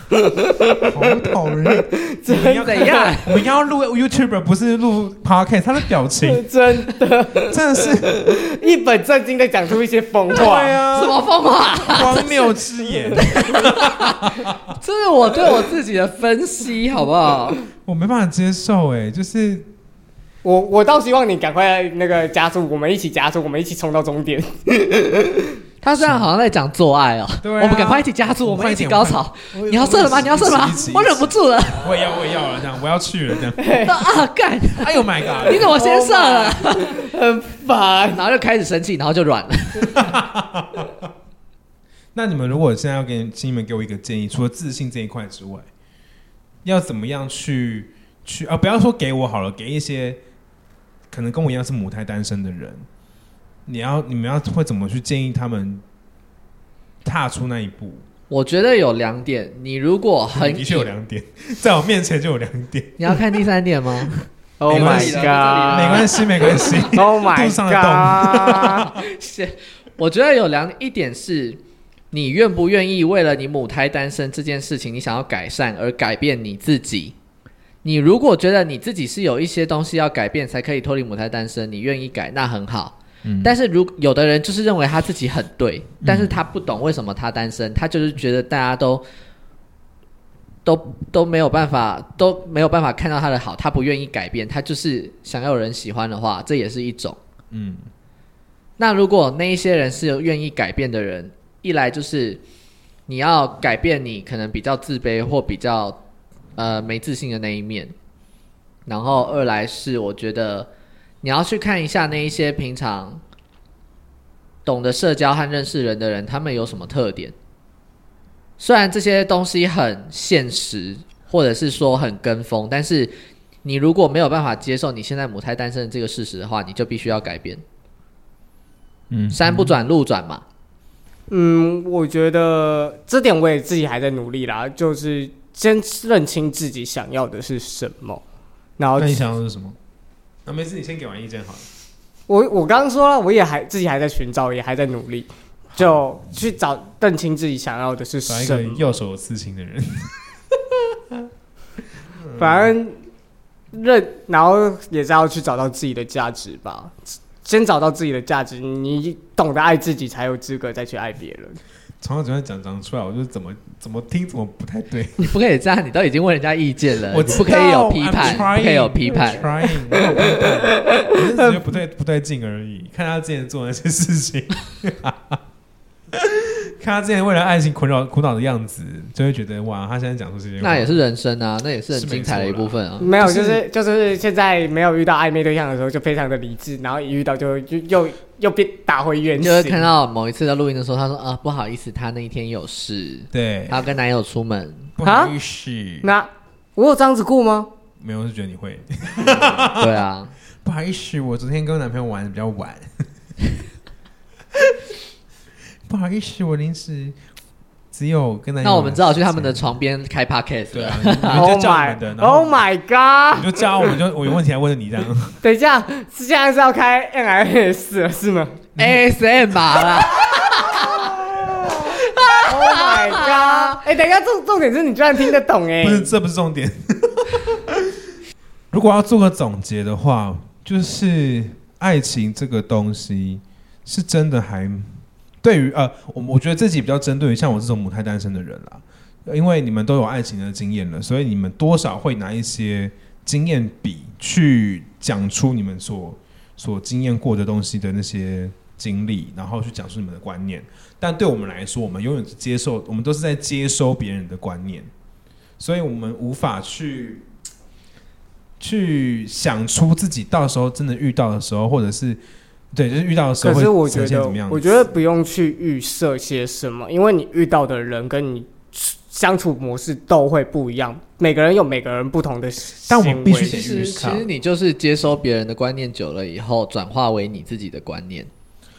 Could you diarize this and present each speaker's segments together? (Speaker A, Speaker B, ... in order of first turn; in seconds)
Speaker A: 0.2-3.2, 6.2-10.8, 20.4-25.5, 33.6-33.9, 35.6-38.2, 64.6-66.1, 66.9-68.9, 131.3-138.2, 138.8-139.2, 142.3-149.0, 152.4-153.0, 153.7-161.6, 171.2-171.6, 183.0-189.9, 195.0-195.3, 196.0-197.7, 211.3-214.0, 215.4-218.6, 220.7-226.1, 263.4-274.1
Speaker B: 0.8-6.5, 7.4-8.4, 10.3-11.2, 11.8-14.6, 17.9-19.7, 26.0-26.3, 27.4-33.8, 34.8-35.7, 39.9-40.9, 42.1-45.7, 46.6-50.2, 51.1-52.9, 53.7-55.8, 57.0-58.0, 60.3-63.4, 64.7-68.9, 83.2-83.5, 86.0-86.4, 97.5-97.9, 129.1-129.8, 139.0-139.8, 140.4-141.7, 148.3-150.1, 152.2-152.7, 162.0-165.2, 167.1-175.4, 176.1-181.0, 181.9-183.6, 193.3-193.8, 195.0-196.1, 198.0-200.1, 200.6-203.0, 205.9-207.2, 207.9-209.7, 210.7-212.7, 213.3-215.4, 218.8-219.0, 225.8-228.0, 228.7-254.9, 255.6-257.3, 258.6-262.2, 262.7-264.9, 272.9-274.3
Speaker C: 2.4-3.4, 10.9-12.6, 13.2-17.6, 25.8-31.9, 33.8-37.0, 38.1-40.1, 58.3-60.9, 63.0-66.9, 68.9-77.2, 77.8-89.0, 90.7-97.2, 98.8-102.4, 103.1-106.0, 106.6-108.0, 108.9-110.7, 111.2-113.2, 114.7-117.3, 118.6-127.6, 129.3-130.4, 165.2-169.4, 180.6-183.1, 189.4-194.9, 199.7-200.3, 208.6-211.5, 218.8-221.1, 222.0-223.8, 273.4-278.3